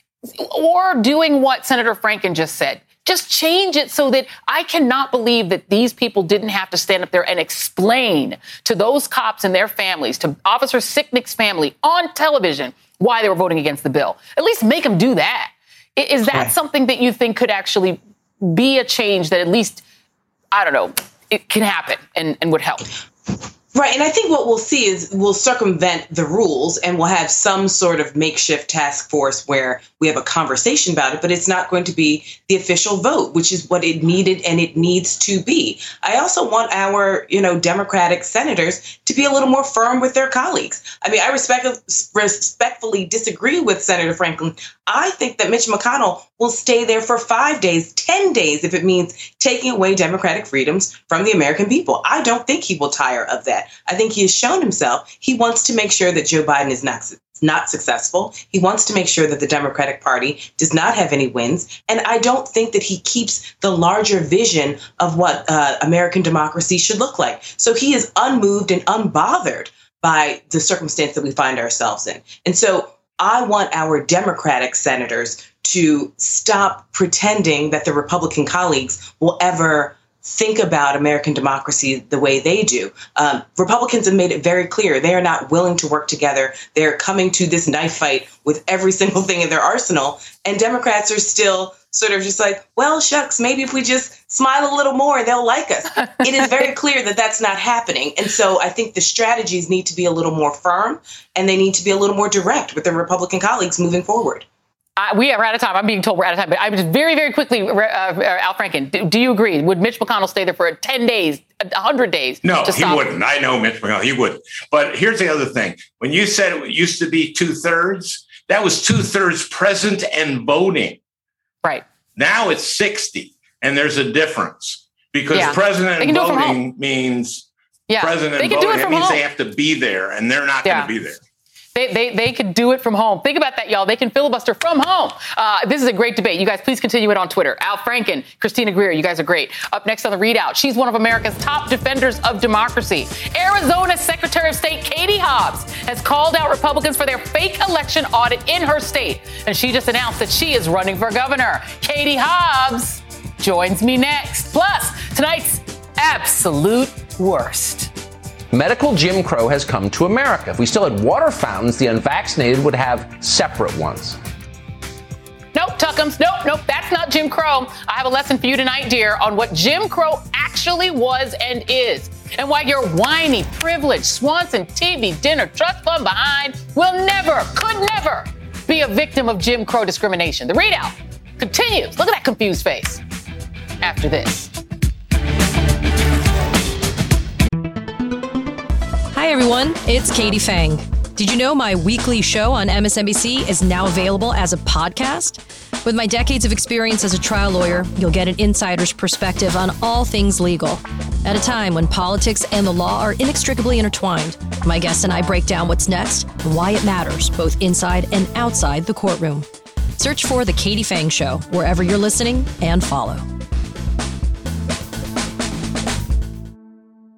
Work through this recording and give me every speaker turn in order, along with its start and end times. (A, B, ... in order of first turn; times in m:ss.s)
0:00.3-0:19.8 A
0:20.5-0:22.9 A
0:23.7-1:44.4 B
1:45.0-1:53.0 A
1:52.4-2:01.0 C
2:02.2-2:07.4 C
2:05.3-2:06.6 A
2:07.9-2:09.2 A
2:08.0-2:11.2 C
2:10.6-2:10.9 A
2:11.7-2:37.9 A
2:38.5-2:44.2 D
2:45.5-3:03.0 A
3:03.8-3:04.5 A
3:09.1-3:29.5 E
3:30.0-3:33.2 E